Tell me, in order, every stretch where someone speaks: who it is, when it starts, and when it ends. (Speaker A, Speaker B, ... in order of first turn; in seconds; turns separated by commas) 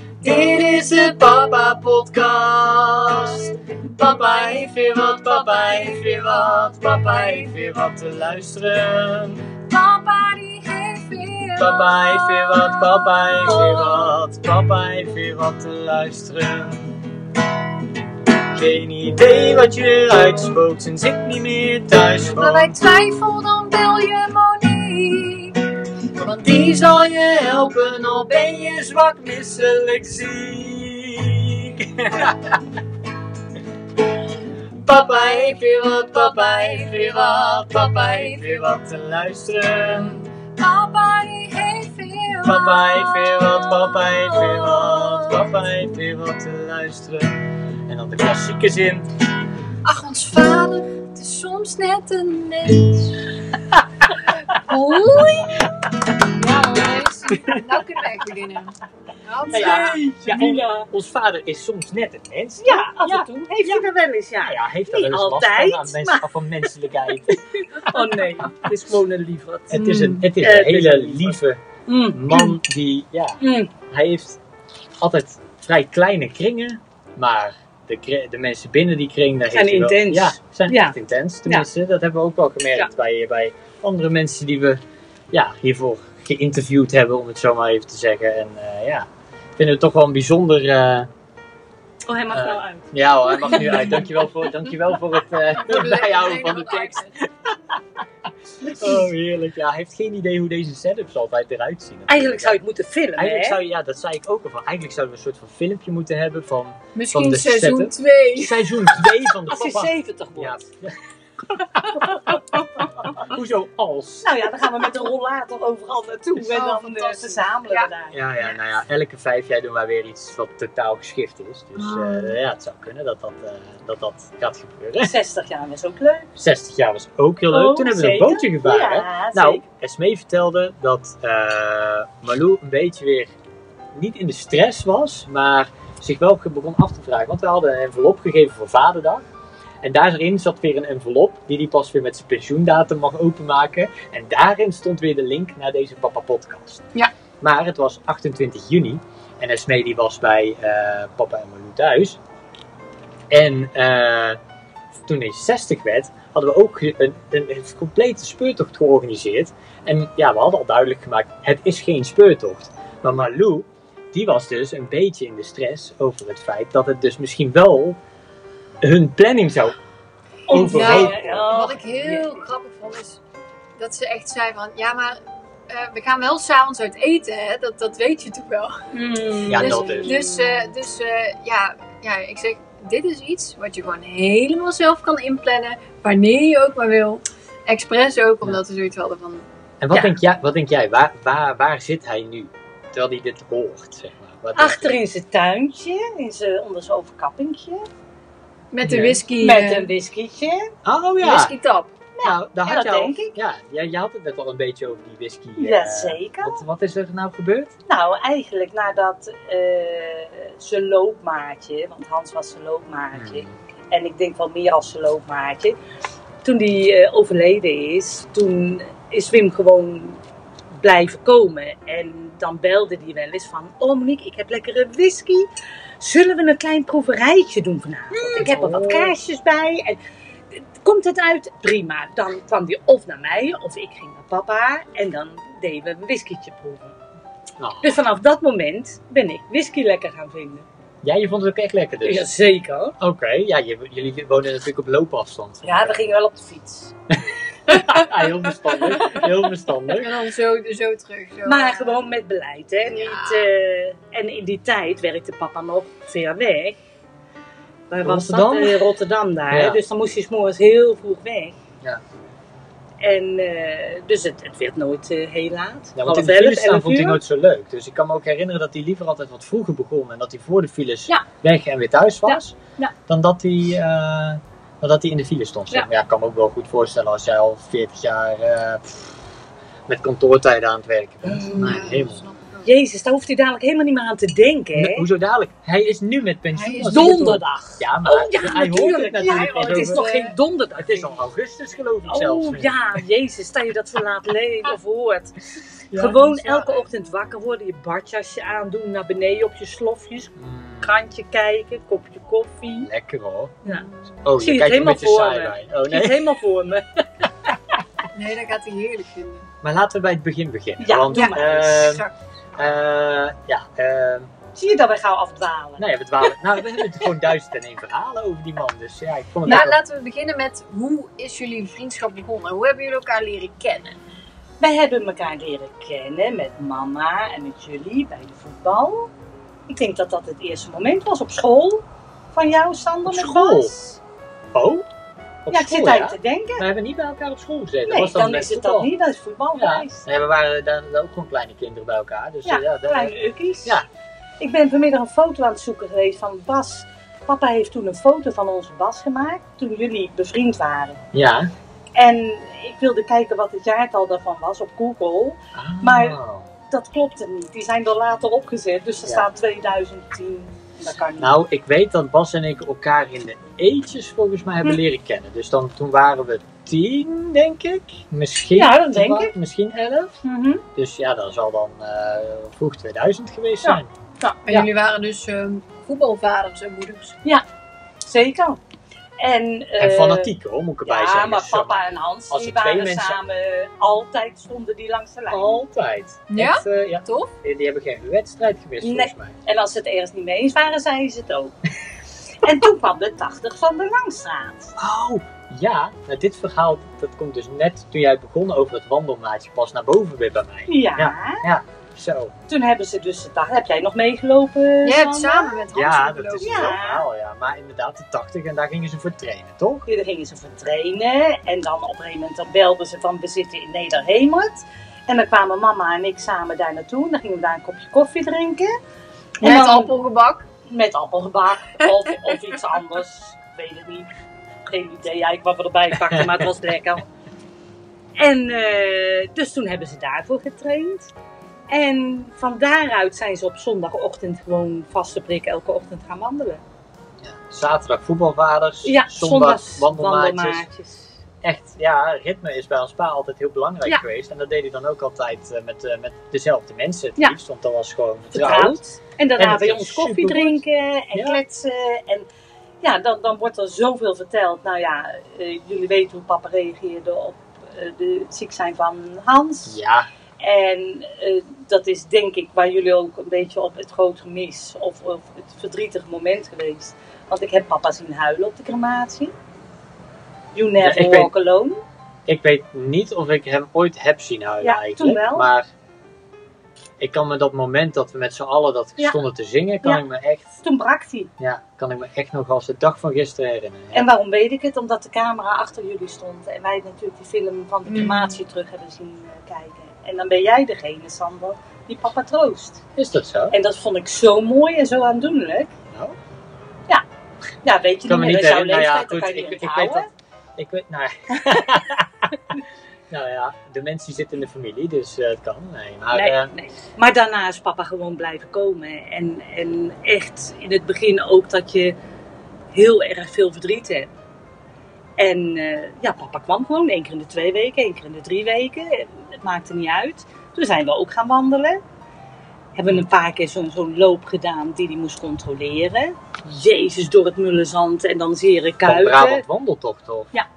Speaker A: 0.2-9.5, Speaker B: 5.2-7.5, Speaker B: 9.7-14.1, Speaker A: 11.6-17.0, Speaker A: 18.2-22.8, Speaker B: 22.3-25.6, Speaker A: 26.2-32.8, Speaker A: 34.8-40.2, Speaker B: 36.1-38.8, Speaker B: 40.5-45.4, Speaker A: 42.4-49.0, Speaker B: 49.8-53.3, Speaker B: 54.2-60.0, Speaker A: 57.4-57.6, Speaker A: 59.5-63.9, Speaker C: 59.5-60.9, Speaker C: 62.6-66.3, Speaker A: 64.4-68.4, Speaker C: 67.8-69.8, Speaker A: 69.7-71.6, Speaker B: 69.7-70.3, Speaker C: 70.4-71.3, Speaker C: 71.9-72.5, Speaker A: 72.1-74.4, Speaker C: 73.4-73.7, Speaker A: 75.0-84.8, Speaker C: 79.5-81.0, Speaker A: 85.3-91.1, Speaker C: 92.0-94.0, Speaker A: 92.3-97.8, Speaker B: 95.5-97.1, Speaker A: 98.7-102.6, Speaker C: 102.1-103.6, Speaker A: 103.2-111.0, Speaker B: 106.9-109.1, Speaker C: 109.5-110.6, Speaker A: 111.5-114.5, Speaker C: 112.1-112.4, Speaker C: 114.2-118.2, Speaker B: 116.4-117.9, Speaker A: 118.1-125.1, Speaker B: 121.8-122.3, Speaker C: 125.0-126.3, Speaker A: 126.3-133.3, Speaker C: 127.5-129.6, Speaker A: 133.9-139.2, Speaker A: 139.8-146.8, Speaker A: 147.4-152.2, Speaker A: 153.3-154.4, Speaker A: 155.1-168.0, Speaker A: 168.8-169.8, Speaker C: 170.4-172.3, Speaker A: 170.5-171.5, Speaker B: 170.5-173.2, Speaker B: 173.8-189.4, Speaker C: 178.9-180.7, Speaker A: 179.5-180.1, Speaker A: 189.8-195.0, Speaker C: 189.9-190.2, Speaker C: 194.5-197.9, Speaker B: 198.7-199.9, Speaker A: 198.8-199.2, Speaker C: 199.4-200.7, Speaker A: 200.8-201.5, Speaker B: 201.2-201.9, Speaker C: 202.2-203.4, Speaker A: 202.2-207.7, Speaker C: 205.6-206.6, Speaker C: 207.9-215.8, Speaker A: 213.1-213.5, Speaker C: 216.4-220.2, Speaker C: 220.7-225.5, Speaker C: 226.0-230.0, Speaker A: 228.2-229.1, Speaker C: 230.5-236.9, Speaker A: 237.6-238.0, Speaker C: 237.8-240.7, Speaker A: 241.0-242.3, Speaker C: 242.0-242.9, Speaker A: 243.0-246.1, Speaker C: 245.6-246.9, Speaker A: 247.7-250.2, Speaker B: 249.9-252.1, Speaker C: 251.4-256.8, Speaker B: 252.9-253.4, Speaker C: 257.9-261.5, Speaker A: 258.0-258.8, Speaker A: 259.5-259.8, Speaker C: 263.0-267.2, Speaker A: 265.9-272.6, Speaker C: 272.2-272.9, Speaker A: 273.1-279.1, Speaker A: 279.9-282.2, Speaker C: 281.2-281.8, Speaker B: 281.5-282.7, Speaker C: 282.6-285.1, Speaker A: 284.7-290.0, Speaker B: 286.5-287.4, Speaker C: 286.9-291.1, Speaker B: 289.2-290.3, Speaker A: 290.8-293.0, Speaker C: 292.1-295.4, Speaker A: 295.9-296.9, Speaker C: 295.9-302.9, Speaker A: 300.4-300.9, Speaker A: 302.8-303.6, Speaker A: 304.2-306.3, Speaker C: 304.4-306.8, Speaker B: 308.1-309.5, Speaker A: 309.6-314.3, Speaker C: 310.8-312.1, Speaker C: 314.5-315.9, Speaker A: 315.8-319.8, Speaker B: 319.4-324.0, Speaker C: 324.6-329.1, Speaker C: 329.7-334.0, Speaker A: 333.1-333.7, Speaker A: 334.5-334.9, Speaker A: 335.4-338.9, Speaker C: 335.5-336.7, Speaker C: 337.9-340.1, Speaker A: 339.5-343.9, Speaker C: 342.4-343.8, Speaker C: 344.4-351.0, Speaker A: 351.1-351.5, Speaker C: 351.9-361.3, Speaker A: 355.5-356.5, Speaker A: 361.2-370.1, Speaker C: 368.5-369.3, Speaker C: 370.2-370.6, Speaker A: 370.7-373.9, Speaker C: 373.6-374.6, Speaker B: 374.5-377.2, Speaker C: 378.0-378.6, Speaker C: 379.2-380.3, Speaker A: 379.8-383.2, Speaker C: 380.8-385.6, Speaker A: 385.3-389.3, Speaker B: 386.3-387.3, Speaker C: 388.8-391.6, Speaker C: 392.4-394.7, Speaker A: 394.8-402.3, Speaker C: 400.7-401.4, Speaker C: 402.5-405.6, Speaker B: 404.8-406.8, Speaker A: 405.7-409.9, Speaker C: 406.4-407.0, Speaker C: 409.9-418.8, Speaker C: 419.4-419.9, Speaker B: 419.4-420.4, Speaker C: 420.7-424.1, Speaker C: 424.6-427.1, Speaker C: 428.2-431.1, Speaker C: 431.7-436.6, Speaker A: 437.2-440.6, Speaker C: 438.8-441.2, Speaker A: 441.4-448.8, Speaker C: 448.3-452.3, Speaker A: 449.4-450.6, Speaker A: 451.1-451.4, Speaker C: 452.8-459.8, Speaker A: 459.6-460.1, Speaker C: 460.4-469.3, Speaker C: 470.5-471.8, Speaker A: 470.8-471.3, Speaker A: 472.3-475.7, Speaker C: 474.6-475.5, Speaker A: 477.0-480.6, Speaker C: 480.6-481.3, Speaker A: 481.4-484.1, Speaker C: 483.9-492.8, Speaker B: 487.9-488.3, Speaker A: 492.9-493.6, Speaker C: 493.5-495.7, Speaker C: 497.6-500.1, Speaker A: 498.0-502.3, Speaker A: 503.1-506.5, Speaker C: 506.1-511.9, Speaker C: 512.7-514.1, Speaker C: 515.2-521.8, Speaker C: 522.8-529.4, Speaker A: 528.8-530.3